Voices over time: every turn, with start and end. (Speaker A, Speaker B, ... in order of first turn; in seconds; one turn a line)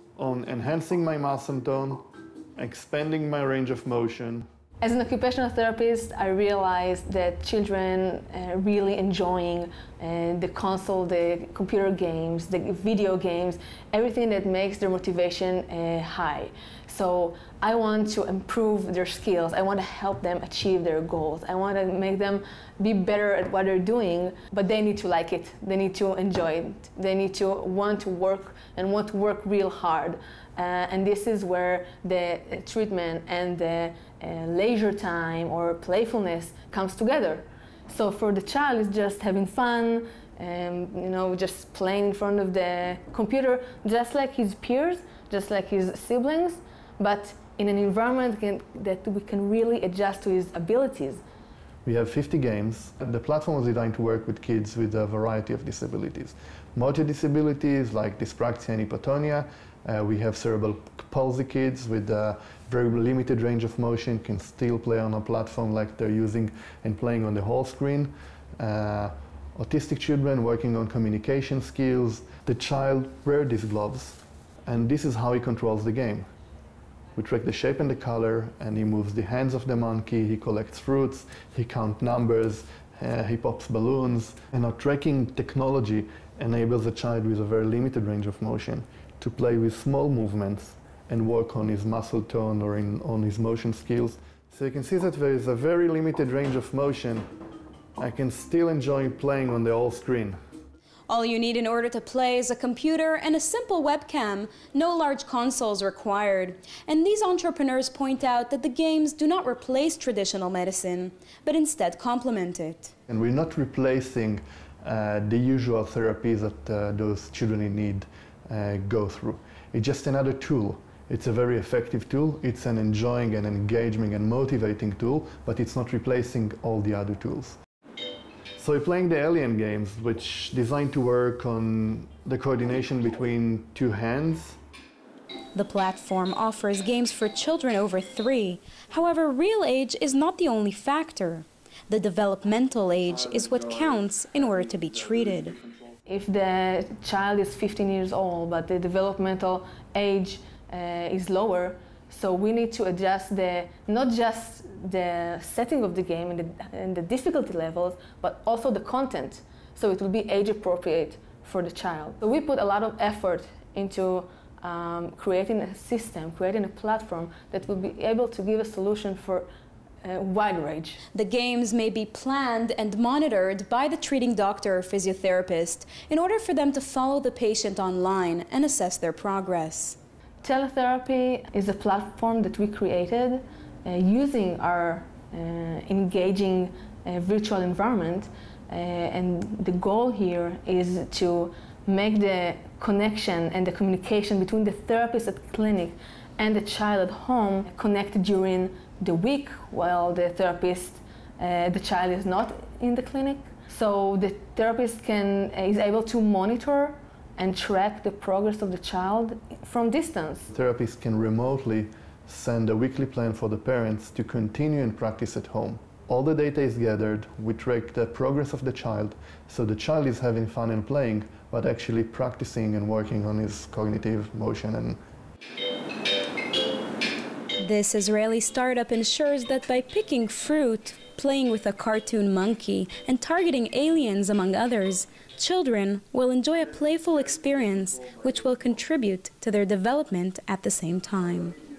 Speaker A: 0.1-2.0
Speaker A: 2.5-4.5
Speaker B: 4.8-51.2
Speaker A: 51.8-76.3
Speaker A: 77.2-97.3
Speaker A: 98.0-100.4
Speaker C: 101.1-112.9
Speaker A: 113.1-127.6
Speaker A: 128.6-134.6
Speaker C: 135.5-145.6
Speaker B: 146.1-169.5
Speaker B: 170.0-171.0
Speaker C: 171.1-180.0
Speaker B: 180.4-210.5
Speaker A: 210.5-225.0
Speaker C: 227.6-241.6